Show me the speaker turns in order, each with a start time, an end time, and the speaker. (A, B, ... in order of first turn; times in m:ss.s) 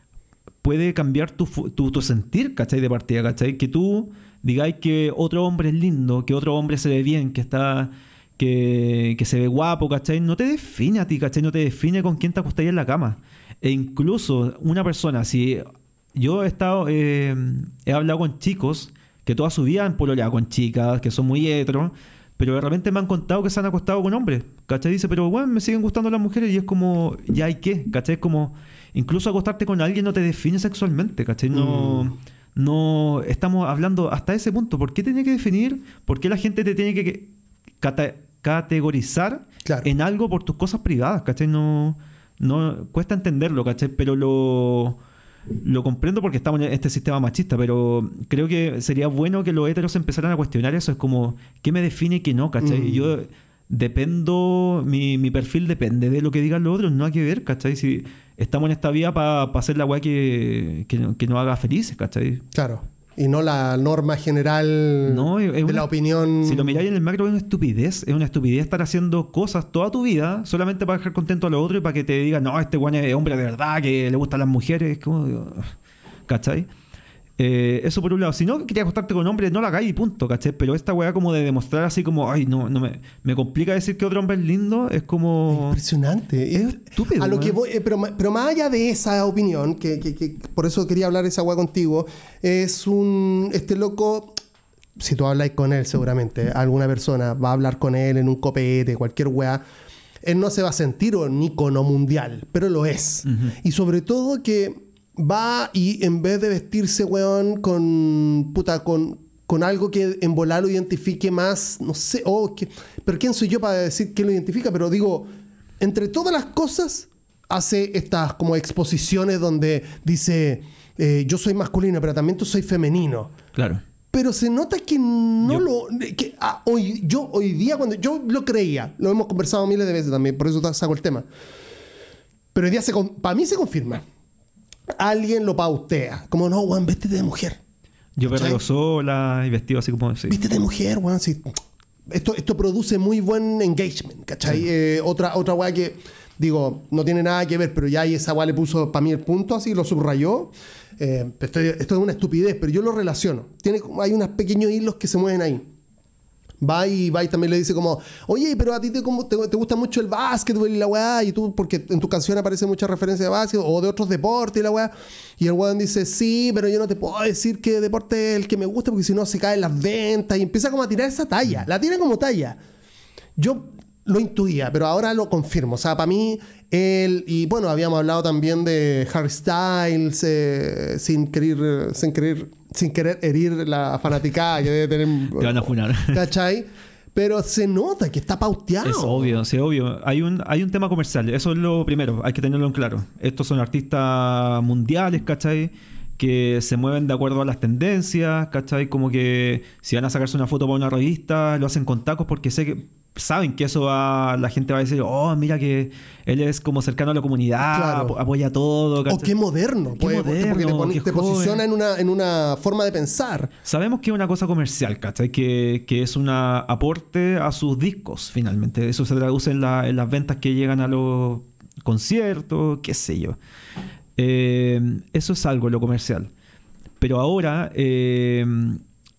0:00.6-0:37.3 A
0:31.5-0:32.1 B
0:37.8-0:45.0 A
0:45.6-1:02.4 A
0:52.6-0:53.1 B
1:02.5-1:06.8 B
1:05.0-1:05.9 A
1:06.4-1:15.7 A
1:16.3-1:16.7 A
1:17.4-1:25.8 A
1:25.5-1:34.4 B
1:26.8-1:27.6 A
1:35.0-1:39.6 B
1:40.2-1:55.3 B
1:43.3-1:43.5 A
1:55.8-2:03.3 B
2:03.5-2:03.8 A
2:04.1-2:11.2 B
2:12.5-2:14.0 B
2:15.0-2:17.6 B
2:18.2-2:20.4 A
2:18.3-2:18.6 B
2:20.3-2:21.5 B
2:22.1-2:35.7 B
2:36.6-2:52.6 B
2:53.4-3:09.4 B
3:05.3-3:06.2 A
3:08.8-3:29.3 A
3:27.7-3:28.2 B
3:29.1-3:33.5 B
3:30.0-3:31.6 A
3:33.6-3:43.4 A
3:44.2-3:46.3 A
3:47.0-3:48.8 A